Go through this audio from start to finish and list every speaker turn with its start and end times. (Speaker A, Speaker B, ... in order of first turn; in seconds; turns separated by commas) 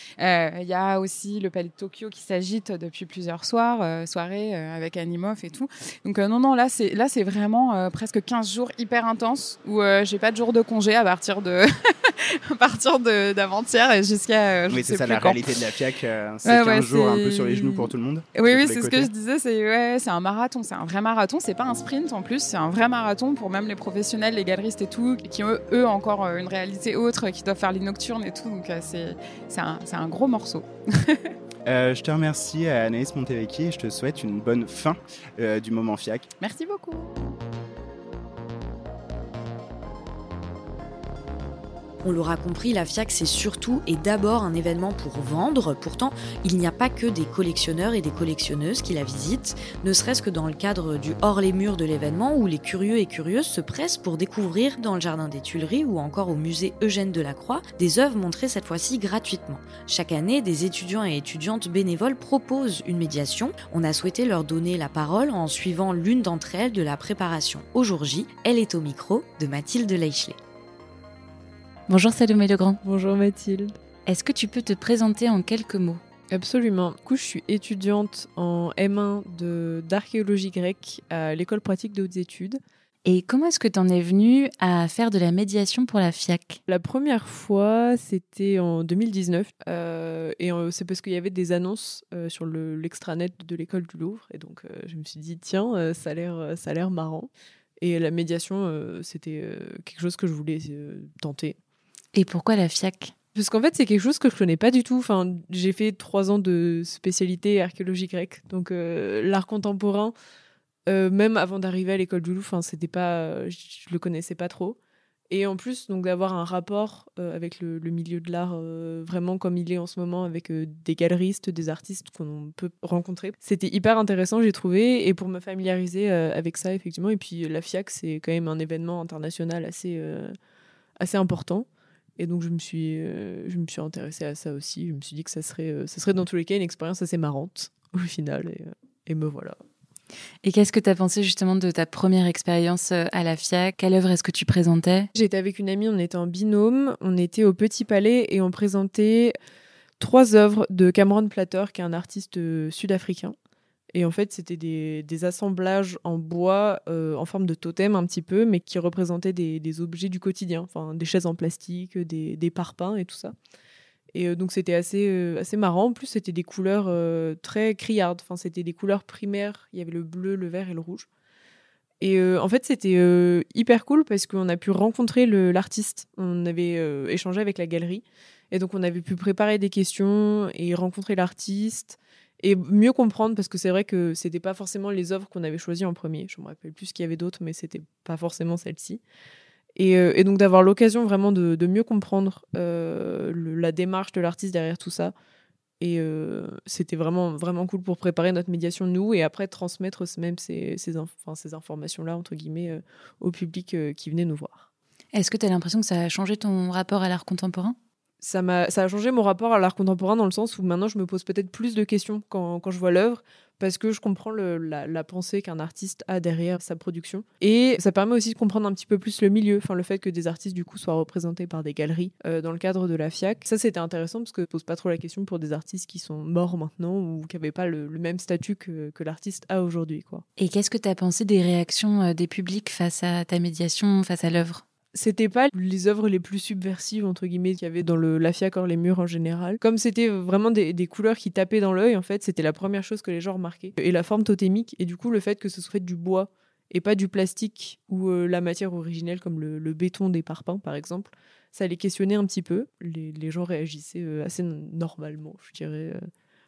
Speaker A: 0.2-15.5, Speaker B: 14.7-19.1, Speaker A: 16.4-31.3, Speaker B: 31.6-36.3, Speaker A: 36.4-37.2, Speaker C: 42.0-70.4, Speaker D: 71.9-72.8, Speaker E: 72.8-73.7, Speaker D: 74.0-76.0, Speaker E: 76.3-82.6, Speaker D: 83.0-86.6, Speaker E: 86.7-101.6, Speaker D: 102.1-103.1, Speaker E: 103.3-110.1, Speaker E: 110.9-114.8, Speaker E: 115.3-130.3, Speaker E: 131.0-131.7, Speaker E: 132.2-139.6, Speaker D: 140.4-145.1, Speaker E: 145.1-149.3, Speaker E: 150.0-153.3, Speaker E: 153.9-163.3, Speaker E: 164.1-171.1, Speaker E: 172.0-189.0, Speaker E: 189.8-195.1, Speaker E: 195.8-204.7, Speaker D: 205.1-207.8, Speaker E: 208.2-230.2, Speaker D: 230.4-234.6, Speaker E: 234.9-256.1